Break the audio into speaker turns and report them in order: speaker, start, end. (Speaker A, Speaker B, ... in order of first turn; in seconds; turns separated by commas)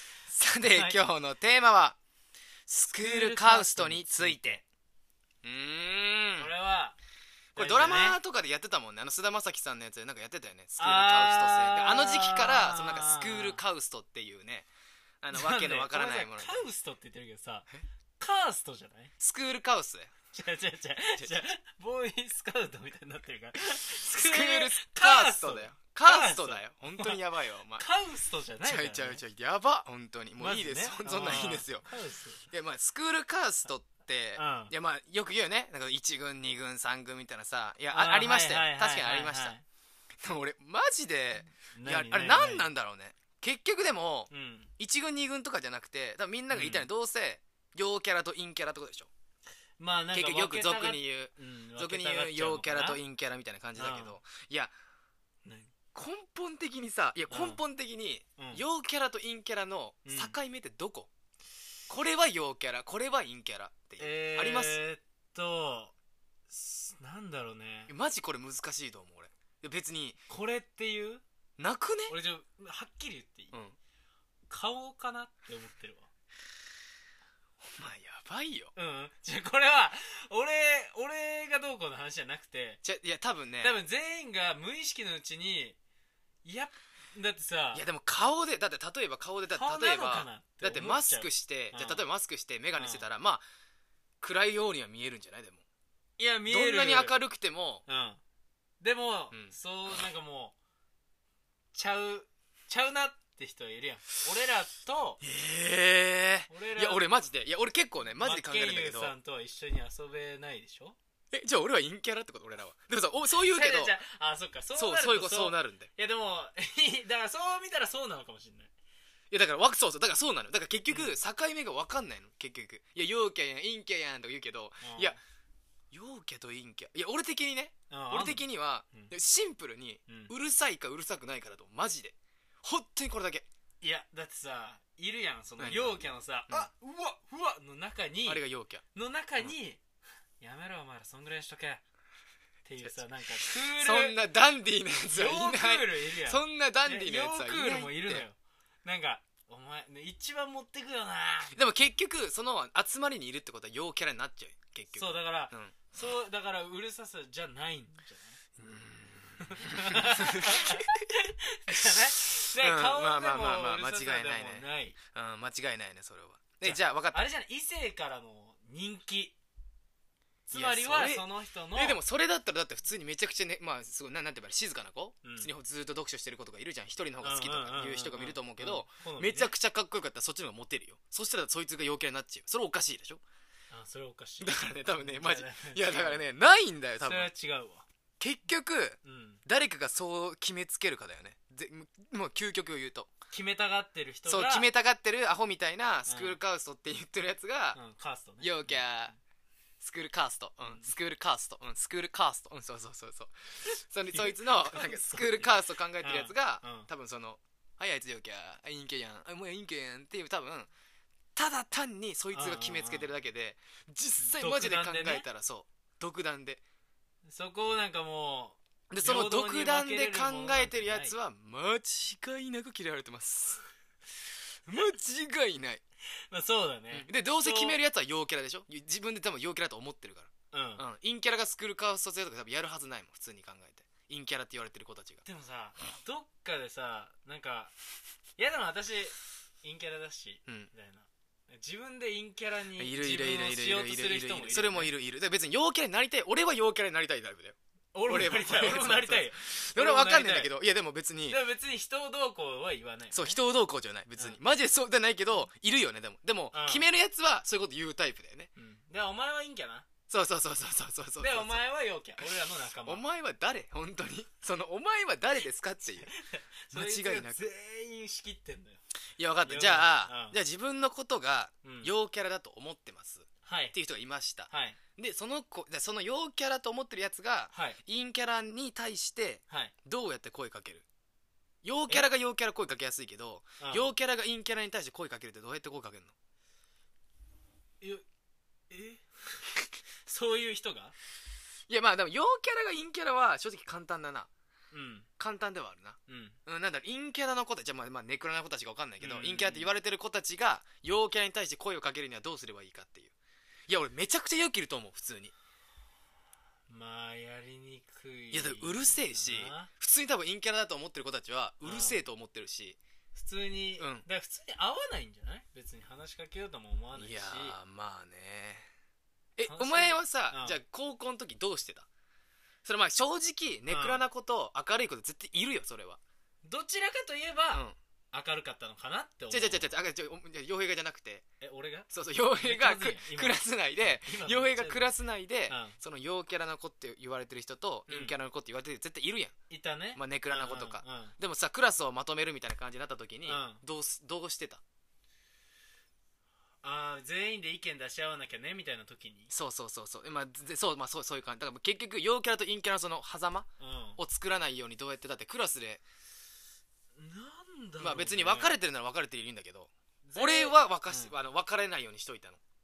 Speaker A: 0.3-2.0, Speaker B: 0.6-1.0, Speaker A: 2.7-4.6, Speaker B: 2.9-4.6, Speaker A: 5.4-6.5, Speaker B: 6.4-7.0, Speaker B: 7.5-8.2, Speaker A: 7.5-14.7, Speaker B: 10.8-13.6, Speaker A: 15.2-16.7, Speaker B: 15.3-17.7, Speaker B: 18.2-19.1, Speaker A: 19.2-20.1, Speaker B: 20.3-27.2, Speaker A: 24.1-27.9, Speaker B: 27.8-29.2, Speaker A: 28.6-31.9, Speaker B: 30.4-32.4, Speaker A: 32.5-39.5, Speaker B: 34.3-34.7, Speaker B: 37.9-39.6, Speaker A: 40.2-49.1, Speaker B: 41.6-42.7, Speaker B: 44.3-44.7, Speaker B: 46.5-46.9, Speaker B: 49.8-53.0, Speaker A: 50.1-54.7, Speaker B: 53.8-54.2, Speaker B: 55.5-55.7, Speaker A: 55.9-61.1, Speaker B: 57.3-57.6, Speaker B: 58.4-58.6, Speaker B: 60.0-60.4, Speaker A: 61.9-64.8, Speaker B: 64.0-65.9, Speaker B: 66.5-67.9, Speaker A: 67.9-70.2, Speaker B: 70.3-71.2, Speaker A: 71.6-72.2, Speaker B: 72.1-73.5, Speaker B: 74.5-76.1, Speaker A: 77.6-78.7, Speaker B: 78.8-82.8, Speaker A: 82.8-83.8, Speaker B: 83.6-85.8, Speaker B: 86.4-87.8, Speaker A: 87.7-93.4, Speaker B: 89.5-92.0, Speaker B: 92.7-93.0, Speaker A: 94.2-95.6, Speaker B: 96.2-97.2, Speaker A: 96.5-97.8, Speaker B: 97.8-98.2, Speaker B: 98.8-100.5, Speaker B: 101.7-105.2, Speaker A: 105.2-109.1, Speaker B: 106.5-107.1, Speaker B: 108.2-111.0, Speaker A: 111.3-114.0, Speaker B: 113.4-118.7, Speaker A: 114.8-115.9, Speaker A: 119.3-125.2, Speaker B: 120.9-121.2, Speaker B: 124.8-125.2, Speaker A: 125.9-133.5, Speaker B: 127.9-129.1, Speaker B: 130.1-130.3, Speaker B: 133.8-138.4, Speaker A: 135.6-136.7, Speaker A: 138.2-138.8, Speaker B: 138.9-139.8, Speaker B: 140.4-141.8, Speaker B: 142.7-144.2, Speaker A: 142.8-148.2, Speaker B: 145.1-151.6, Speaker A: 151.5-155.8, Speaker B: 154.9-158.4, Speaker A: 158.6-161.0, Speaker B: 159.4-165.0, Speaker A: 161.7-167.3, Speaker B: 166.6-169.4, Speaker B: 170.5-172.0, Speaker A: 170.5-183.2, Speaker B: 175.2-175.5, Speaker B: 177.2-179.5, Speaker B: 183.7-186.2, Speaker A: 184.4-187.3, Speaker B: 187.0-187.8, Speaker A: 188.2-193.1, Speaker B: 189.0-189.4, Speaker B: 193.3-194.7, Speaker A: 194.3-197.8, Speaker B: 196.1-196.4, Speaker B: 197.7-198.8, Speaker A: 198.4-199.1, Speaker A: 199.8-210.7, Speaker B: 200.6-200.9, Speaker B: 204.1-206.9, Speaker A: 211.4-216.6, Speaker B: 212.3-213.1, Speaker B: 214.2-215.3, Speaker B: 217.2-221.2, Speaker A: 218.9-223.6, Speaker A: 224.7-225.8, Speaker B: 226.3-227.8, Speaker A: 226.9-235.2, Speaker B: 230.5-230.8, Speaker B: 235.2-237.7, Speaker B: 238.4-244.9, Speaker A: 242.8-247.6, Speaker B: 247.9-250.5, Speaker A: 248.1-251.4, Speaker B: 251.3-253.4, Speaker A: 253.1-258.5, Speaker B: 256.5-256.9, Speaker B: 258.6-259.9, Speaker A: 260.1-261.6, Speaker B: 261.2-263.0, Speaker A: 262.8-266.1, Speaker B: 265.9-268.8, Speaker A: 266.7-267.5, Speaker A: 269.2-280.8, Speaker B: 269.4-270.4, Speaker B: 271.6-271.9, Speaker B: 273.4-273.8, Speaker B: 274.5-274.8, Speaker B: 277.5-277.8, Speaker B: 279.5-279.7, Speaker A: 281.6-286.1, Speaker B: 283.6-283.9, Speaker B: 288.7-290.9, Speaker A: 291.7-294.3, Speaker B: 294.7-295.1, Speaker A: 295.2-303.1, Speaker B: 296.1-296.4, Speaker B: 299.0-299.7, Speaker A: 303.7-305.3, Speaker B: 306.7-309.7, Speaker A: 308.3-312.8, Speaker B: 311.6-312.1, Speaker B: 313.1-317.6, Speaker A: 313.8-314.1, Speaker A: 316.9-318.7, Speaker A: 319.4-321.9, Speaker B: 319.5-320.6, Speaker A: 322.6-326.0, Speaker B: 323.7-324.1, Speaker B: 326.4-329.7, Speaker A: 329.3-331.2, Speaker B: 331.4-334.9, Speaker A: 331.9-339.3, Speaker B: 335.5-335.8, Speaker B: 337.9-338.1, Speaker B: 339.5-341.1, Speaker A: 339.9-344.6, Speaker B: 343.2-343.6, Speaker B: 346.6-349.3, Speaker A: 349.3-355.8, Speaker B: 353.6-354.0, Speaker B: 356.9-358.5, Speaker A: 357.8-362.4, Speaker B: 360.0-361.1